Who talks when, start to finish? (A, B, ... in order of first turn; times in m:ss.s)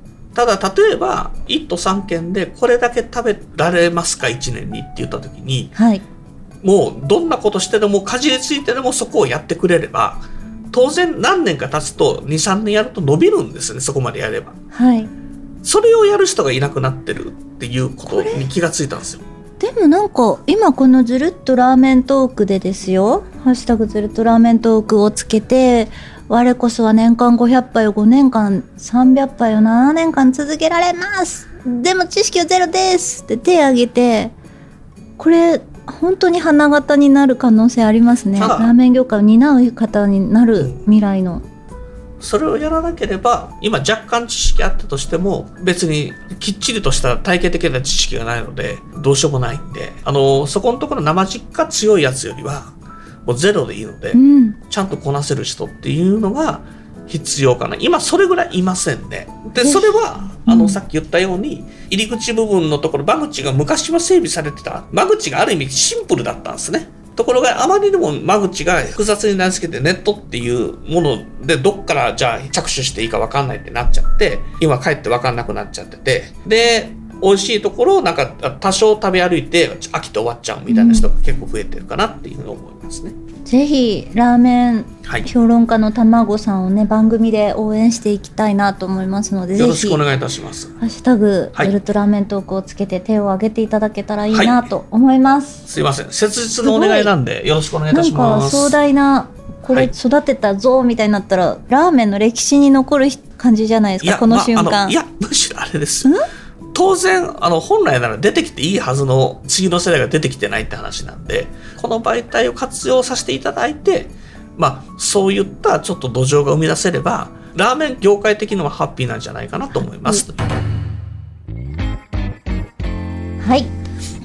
0:00.3-0:05.7 A
0:05.8-0:06.0 B
0:06.6-0:14.6 A
0:14.7-0:15.1 B
0:15.6-0:19.2 A
0:18.0-0:18.4 B
0:19.6-0:34.3 B
0:35.2-0:41.4 B
0:38.3-0:38.8 A
0:42.2-1:23.2 A
0:54.1-0:54.6 B
0:59.6-1:00.8 B
1:20.7-1:21.1 B
1:23.5-1:30.0 B
1:29.5-1:30.7 A
1:30.8-1:35.6 B
1:34.3-1:34.6 A
1:35.6-1:38.8 A
1:36.6-1:37.1 B
1:37.9-1:45.0 B
1:44.0-1:46.1 A
1:46.7-2:00.4 A
1:59.9-2:00.2 B
2:03.4-2:03.7 B